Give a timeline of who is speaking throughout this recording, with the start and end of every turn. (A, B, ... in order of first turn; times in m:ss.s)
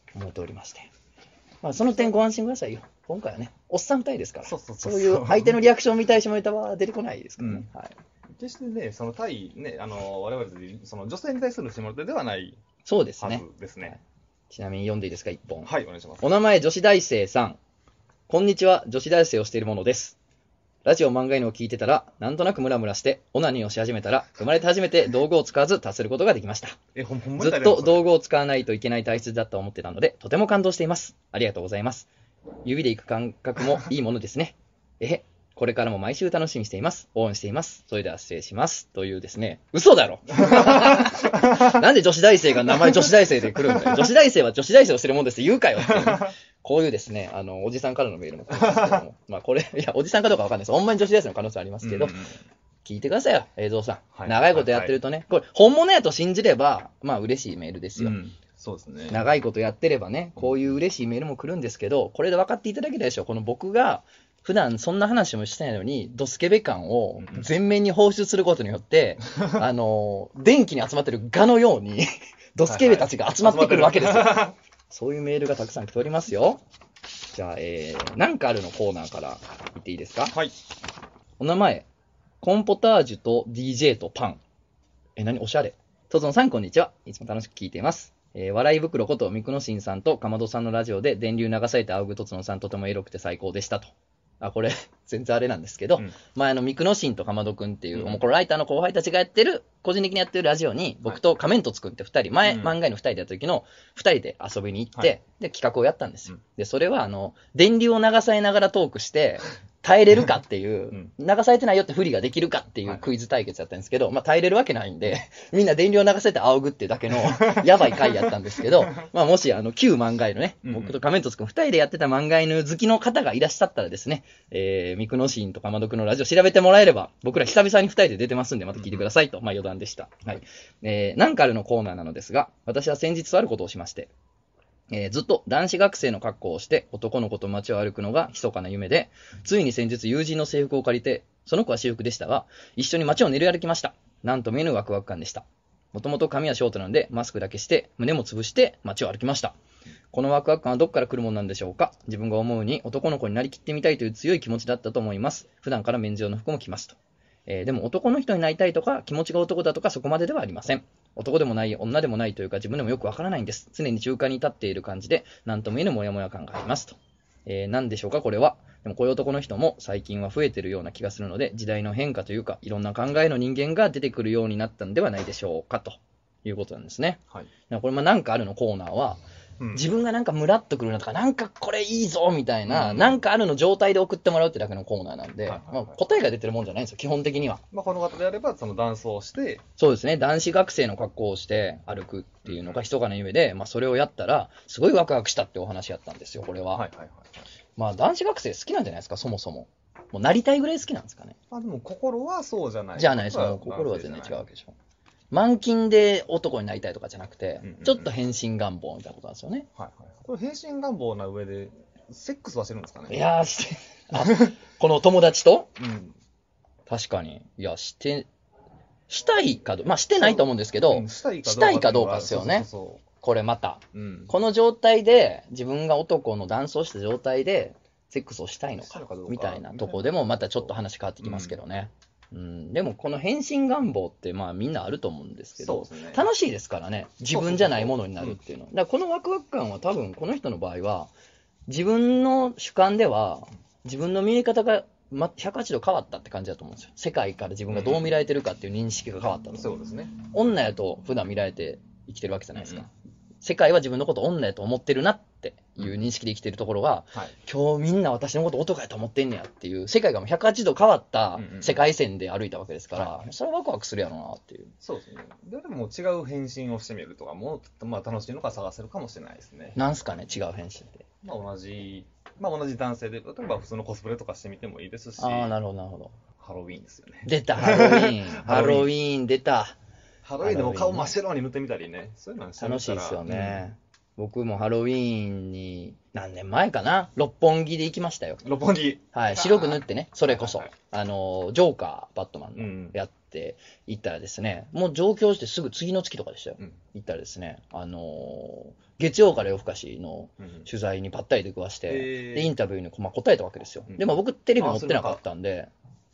0:00.1-0:00.9 A
0:01.6-0:08.0 A
0:04.4-0:05.6 B
0:07.4-0:07.7 B
0:08.3-0:12.6 B
0:12.8-0:14.0 A
0:13.2-0:14.0 B
0:14.5-0:17.6 A
0:15.6-0:16.3 B
0:18.3-0:20.2 A
0:20.8-0:26.8 A
0:26.9-0:28.0 B
0:27.4-0:32.1 A
0:32.6-0:52.2 A
0:40.4-0:41.6 B
0:42.7-0:43.1 B
0:43.7-0:44.0 B
0:45.8-0:46.3 B
0:48.5-0:49.0 B
0:51.8-0:52.4 B
0:52.8-0:58.2 A
0:54.1-0:54.9 B
0:58.0-0:59.2 B
0:59.1-1:16.6 A
1:07.2-1:07.5 B
1:12.7-1:14.5 B
1:17.3-1:20.4 A
1:21.4-1:21.9 A
1:22.4-1:24.4 A
1:25.2-2:14.1 A
1:37.9-1:38.2 B
1:42.4-1:42.8 B
1:57.3-1:58.3 B
2:00.6-2:01.0 B
2:08.7-2:09.0 B
2:14.9-2:29.5 A
2:30.1-2:59.2 A
2:59.6-2:59.8 B
2:59.7-3:07.6 A
3:02.6-3:03.2 B
3:05.5-3:06.0 B
3:07.7-3:09.6 B
3:09.8-3:16.8 A
3:12.4-3:12.8 B
3:16.7-3:17.3 B
3:17.8-3:21.4 A
3:21.5-3:24.5 B
3:23.0-3:24.7 A
3:25.3-3:29.7 A
3:27.6-3:28.1 B
3:29.8-3:33.2 B
3:33.1-3:35.7 A
3:34.2-3:34.5 B
3:35.8-3:36.1 B
3:36.9-3:38.3 A
3:39.1-3:42.7 A
3:40.1-3:43.0 B
3:43.2-4:01.1 A
3:43.9-3:44.3 B
3:48.8-3:50.7 B
3:51.2-3:51.6 B
3:55.6-3:56.2 B
3:57.3-3:58.4 B
4:01.7-4:24.7 A
4:07.7-4:08.1 B
4:09.5-4:10.1 B
4:12.6-4:12.9 B
4:21.4-4:21.8 B
4:24.8-4:29.8 B
4:29.8-4:31.1 A
4:31.2-4:35.5 B
4:35.2-4:36.1 A
4:36.4-4:38.9 B
4:37.2-4:39.8 A
4:40.2-4:43.6 B
4:40.4-4:41.1 A
4:42.6-4:48.4 A
4:48.4-4:50.7 B
4:49.1-5:05.7 A
4:52.6-4:53.0 B
5:00.4-5:00.7 B
5:01.9-5:02.5 B
5:03.9-5:05.2 B